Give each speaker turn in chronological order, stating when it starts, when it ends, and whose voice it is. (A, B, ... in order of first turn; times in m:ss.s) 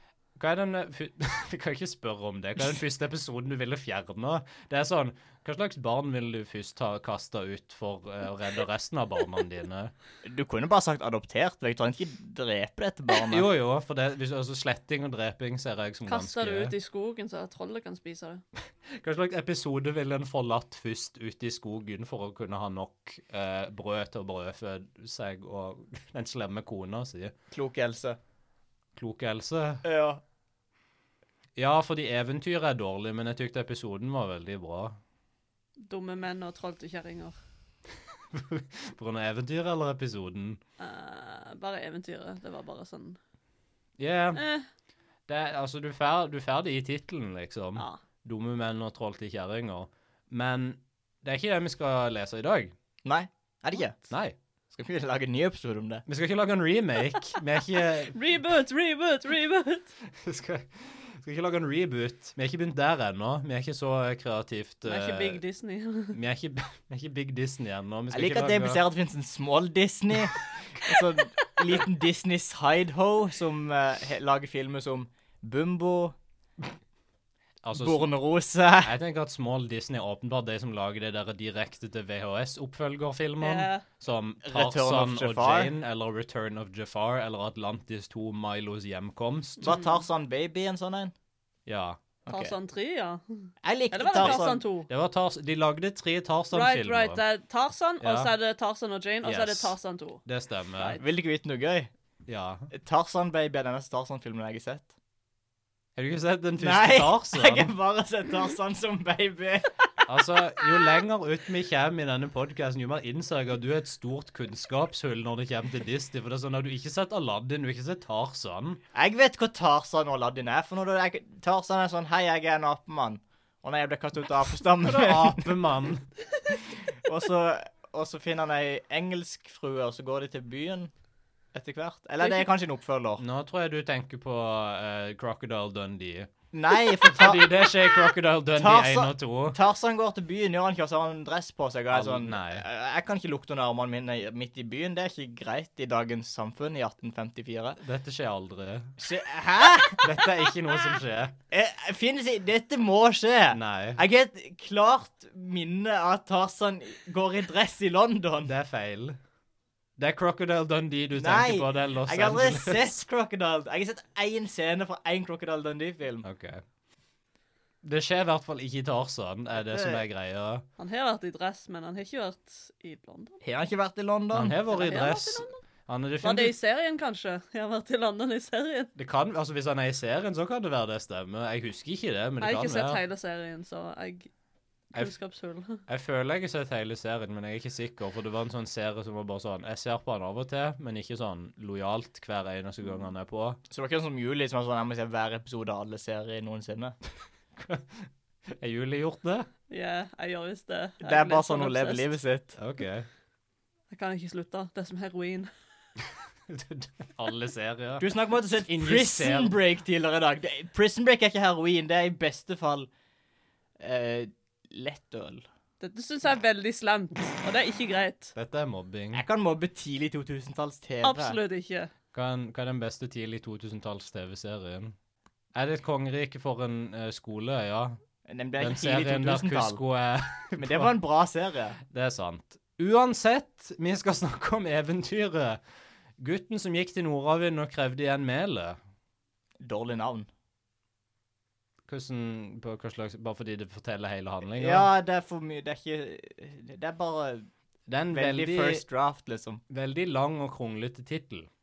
0:00.4-0:09.9 A
0:10.2-0:13.5 B
0:13.3-0:16.7 A
0:16.0-0:18.4 C
0:18.9-0:27.3 A
0:27.5-0:28.2 B
0:29.0-0:29.8 A
0:29.8-0:30.2 B
0:31.6-0:35.0 A
0:35.8-0:37.4 C
0:38.3-0:40.6 A
0:40.8-0:43.2 C
0:44.0-0:44.4 A
0:44.4-0:44.6 C
0:45.3-0:52.7 A
0:53.0-0:54.1 B
0:54.1-0:54.4 A
0:54.7-0:56.0 B
0:56.0-0:58.2 A
0:58.1-0:59.9 C
1:00.0-1:05.4 A
1:04.8-1:06.2 C
1:06.1-1:08.8 A
1:08.1-1:16.2 B
1:17.6-1:18.1 A
1:17.8-1:18.9 B
1:18.8-1:29.8 A
1:23.4-1:23.8 C
1:24.4-1:25.7 B
1:29.6-1:31.1 B
1:29.6-1:30.0 C
1:31.6-1:32.0 A
1:32.2-1:32.6 B
1:32.3-1:34.9 C
1:33.6-1:34.6 B
1:34.2-1:37.2 A
1:36.5-1:40.2 C
1:38.0-1:38.3 A
1:39.2-1:39.7 A
1:40.2-1:41.0 A
1:41.0-1:41.9 B
1:42.3-1:42.7 A
1:42.7-1:44.9 B
1:46.0-1:47.7 A
1:46.6-1:50.0 B
1:50.1-1:58.8 A
1:58.9-2:05.6 B
2:04.8-2:06.0 A
2:06.5-2:10.9 B
2:11.5-2:13.2 B
2:13.2-2:16.3 A
2:16.5-2:17.7 B
2:17.0-2:19.6 A
2:18.5-2:27.8 B
2:21.9-2:22.6 A
2:27.8-2:29.0 A
2:29.0-2:30.1 B
2:30.0-2:31.3 A
2:31.5-2:38.5 B
2:33.5-2:34.0 A
2:38.4-2:39.2 A
2:40.0-2:42.9 A
2:41.1-2:46.2 B
2:46.2-2:46.6 A
2:47.8-2:50.6 A
2:49.6-2:50.0 B
2:50.8-2:53.4 C
2:53.4-2:54.6 B
2:54.3-2:56.5 A
2:54.7-2:55.6 C
2:56.2-2:58.9 C
2:59.0-3:03.0 A
3:02.4-3:04.3 C
3:04.9-3:05.8 C
3:05.9-3:13.6 A
3:13.7-3:17.0 B
3:17.6-3:19.5 A
3:19.7-3:22.1 C
3:21.0-3:22.6 B
3:22.6-3:23.1 A
3:23.9-3:25.5 C
3:26.5-3:28.1 A
3:28.0-3:32.9 B
3:28.6-3:29.6 A
3:33.8-3:35.4 B
3:35.8-3:38.3 C
3:38.3-3:39.2 A
3:39.1-3:41.4 B
3:41.0-3:41.9 C
3:42.1-3:45.0 A
3:45.5-3:48.0 A
3:48.3-3:49.8 B
3:48.6-3:50.9 A
3:50.6-3:51.8 B
3:51.9-3:55.6 A
3:56.2-3:58.8 A
3:59.6-4:00.3 B
4:01.9-4:04.9 A
4:04.5-4:07.5 B
4:07.9-4:08.8 A
4:08.1-4:09.6 B
4:09.7-4:11.5 A